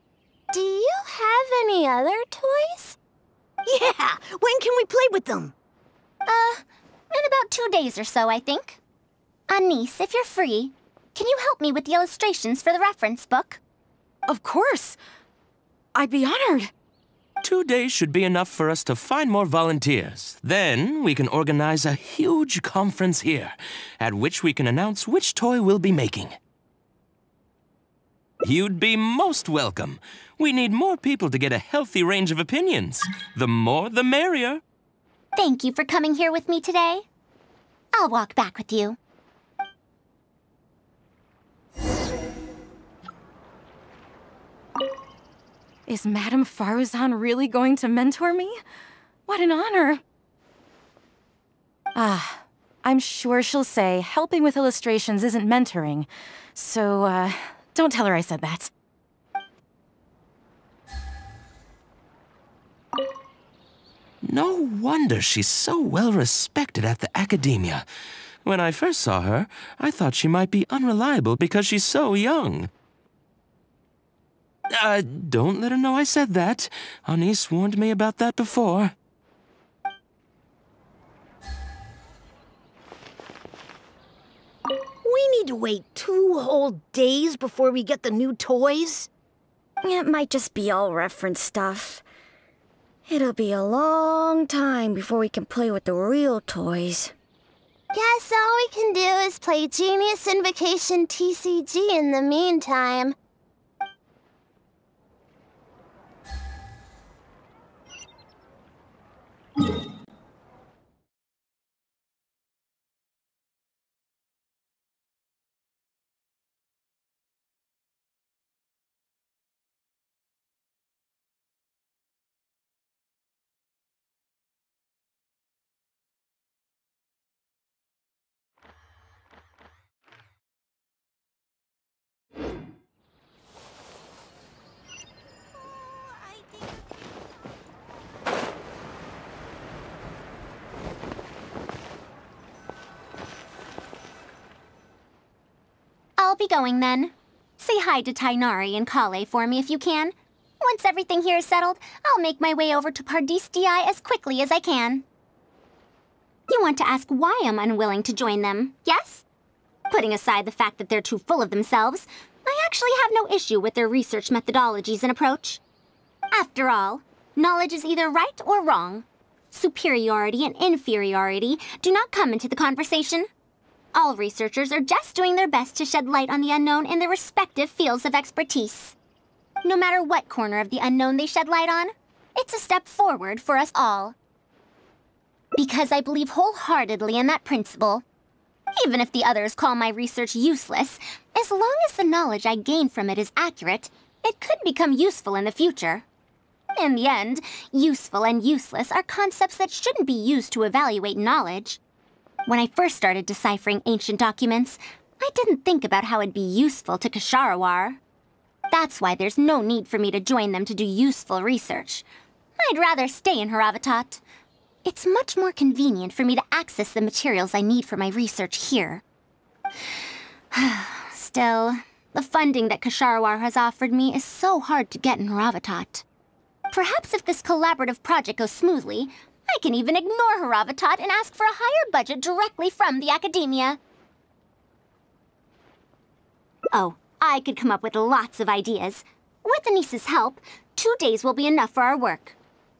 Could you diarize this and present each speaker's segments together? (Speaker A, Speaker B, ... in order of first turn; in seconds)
Speaker A: 0.5-3.0, 97.9-103.1
Speaker B: 3.6-5.5, 85.0-89.1
Speaker C: 6.3-8.8, 9.5-13.6, 35.4-37.0, 37.9-39.0, 146.2-155.1, 156.5-159.2, 159.9-165.6, 166.3-173.3, 173.9-178.9, 179.6-184.1, 185.6-188.0, 188.8-196.1, 196.8-201.8, 202.5-208.0, 208.7-212.0, 212.6-214.2, 214.8-219.0, 220.5-226.0, 226.7-233.8, 236.7-242.4
Speaker D: 14.3-15.0, 15.9-16.7, 45.9-48.6, 49.3-50.0, 52.0-58.7
Speaker E: 17.4-26.4, 28.4-34.6, 64.2-67.9, 68.4-72.7, 74.7-78.9
Speaker F: 89.8-92.0, 93.1-97.1